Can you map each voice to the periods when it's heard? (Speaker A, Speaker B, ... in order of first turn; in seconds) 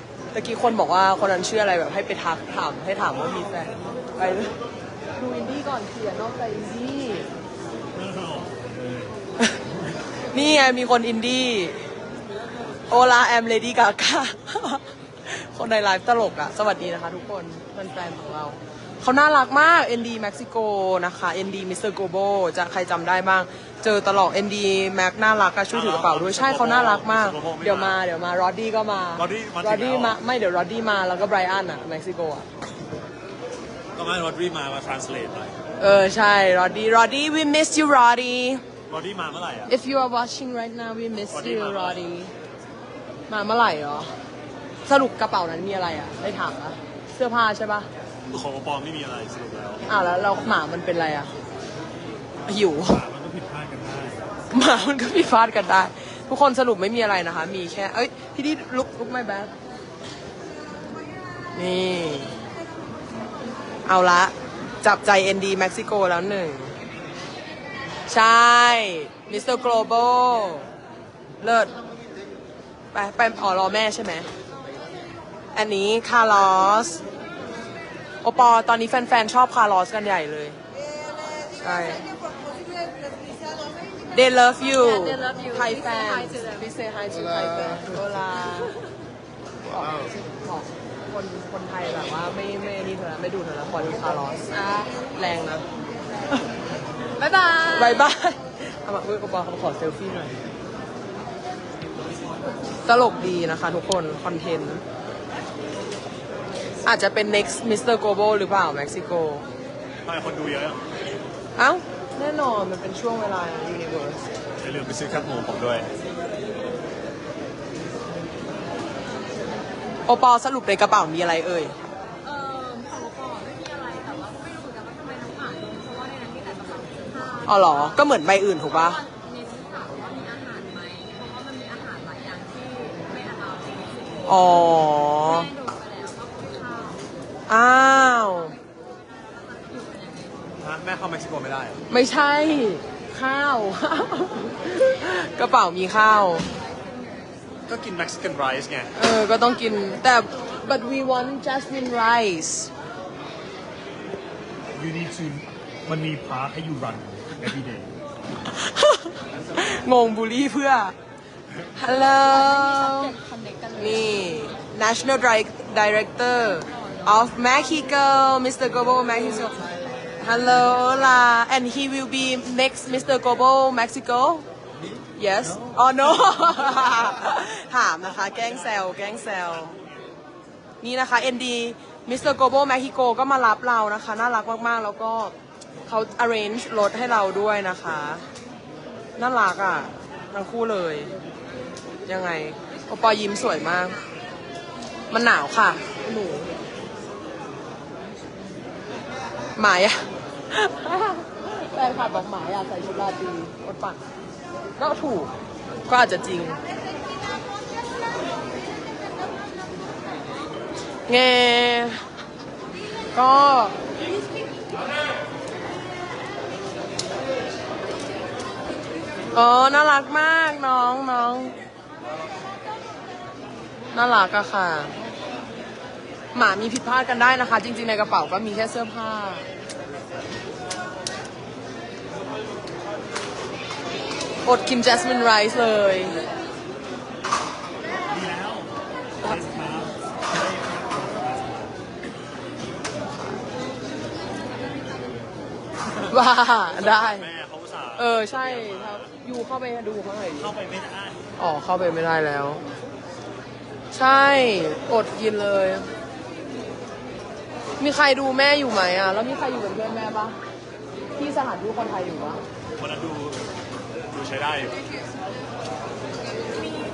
Speaker A: 0.3-4.5, 5.2-7.3, 10.3-11.8, 12.9-32.5, 35.8-38.6, 39.7-42.3, 43.3-44.1, 44.9-47.9, 49.9-51.3, 52.5-53.0, 54.5-59.5, 61.5-62.4, 63.9-66.7, 68.1-70.7, 71.4-71.7, 72.9-74.3, 75.5-77.0, 78.2-80.6, 81.6-82.0, 84.1-88.8, 89.6-95.7, 97.7-100.3, 102.8-104.8, 106.8-109.4, 111.6-114.2, 120.1-121.8, 127.5-129.0, 134.3-135.5, 137.5-138.5, 141.9-146.5, 148.9-152.7, 158.5-160.9, 161.8-163.2, 163.8-174.4, 175.2-179.8, 180.8-185.3, 185.9-188.3, 189.2-191.1, 192.1-194.0, 195.1-196.5, 199.6-204.0, 204.8-205.3, 205.9-206.6, 211.1-212.0, 213.1-213.9, 219.3-221.6, 223.9-224.9, 226.3-229.5, 234.4-236.2, 246.0-247.3, 248.0-250.5, 251.4-252.7, 253.9-255.9, 257.8-260.4, 261.2-262.4
Speaker B: 7.9-9.2, 25.7-28.0, 29.2-30.2, 34.0-35.7, 38.9-39.7, 41.3-42.1, 48.3-49.8, 52.9-54.3, 110.0-110.9, 114.6-115.9, 140.6-141.8, 147.7-148.9, 154.8-157.9, 238.1-241.7, 246.8-249.1, 250.4-251.3, 262.8-263.5, 264.1-264.8
Speaker C: 84.8-86.7, 97.2-98.1, 122.2-127.9, 128.7-134.4, 135.0-137.0, 139.1-140.6, 146.4-147.3, 162.1-164.3, 166.9-167.3